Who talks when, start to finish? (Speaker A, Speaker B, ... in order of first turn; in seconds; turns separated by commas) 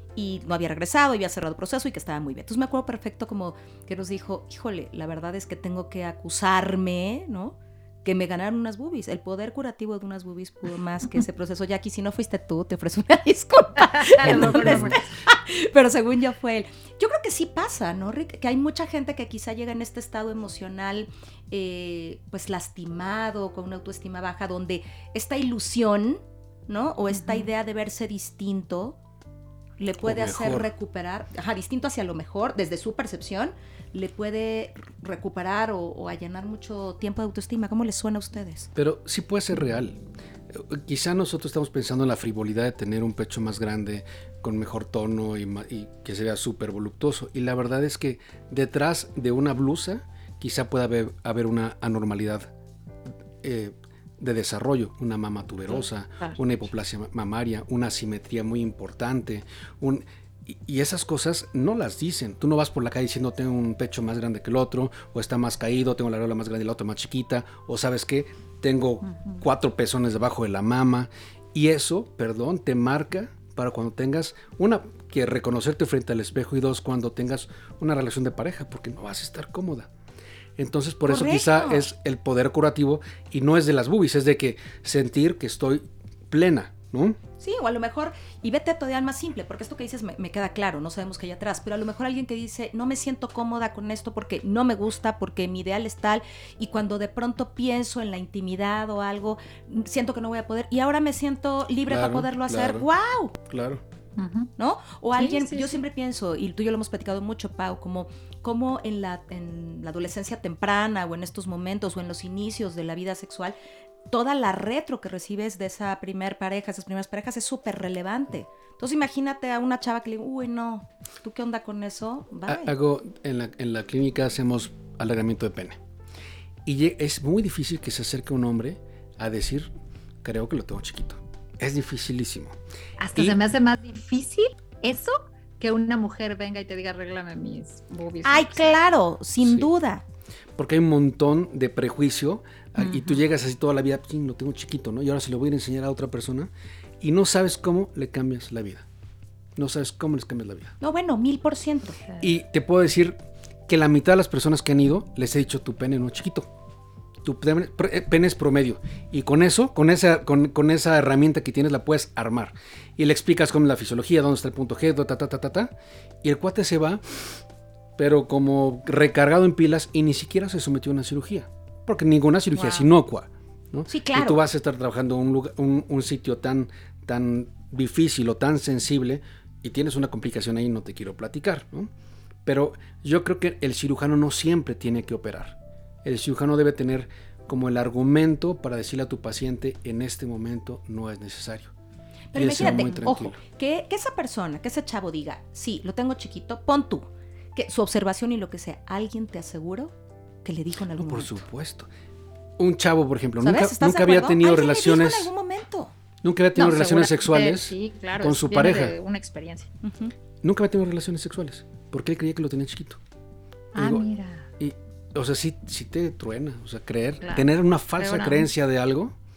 Speaker A: 0.1-29.0, Speaker B: 13.8-15.0, Speaker C: 14.2-14.9, Speaker B: 27.1-27.5, Speaker A: 29.8-38.7, Speaker C: 30.0-30.7, Speaker C: 38.7-52.5, Speaker C: 53.4-79.9, Speaker B: 69.0-69.4, Speaker C: 80.6-87.2, Speaker A: 81.1-81.9, Speaker A: 87.4-103.4, Speaker C: 101.9-102.9, Speaker C: 103.4-103.8, Speaker B: 104.2-104.5, Speaker A: 104.6-113.5, Speaker B: 105.2-105.8, Speaker A: 114.1-122.7, Speaker C: 122.5-125.8, Speaker C: 126.6-129.7, Speaker C: 130.2-132.6, Speaker B: 133.0-138.7, Speaker A: 138.2-140.0, Speaker C: 139.4-139.7, Speaker C: 140.6-148.8, Speaker B: 142.8-143.2, Speaker C: 149.6-150.8, Speaker A: 150.8-152.0, Speaker C: 152.2-156.5, Speaker C: 157.2-167.4, Speaker C: 168.0-181.9, Speaker B: 172.5-172.9, Speaker A: 173.9-174.4, Speaker C: 182.4-191.7, Speaker A: 192.3-201.4, Speaker C: 192.3-193.4, Speaker C: 201.0-201.9, Speaker C: 202.6-205.3, Speaker A: 203.4-205.9, Speaker C: 206.2-208.9, Speaker B: 206.6-209.7, Speaker A: 209.8-210.1, Speaker C: 210.4-213.0, Speaker B: 213.7-214.5, Speaker C: 213.8-214.1, Speaker C: 214.6-219.1, Speaker B: 217.2-217.5, Speaker B: 218.0-218.5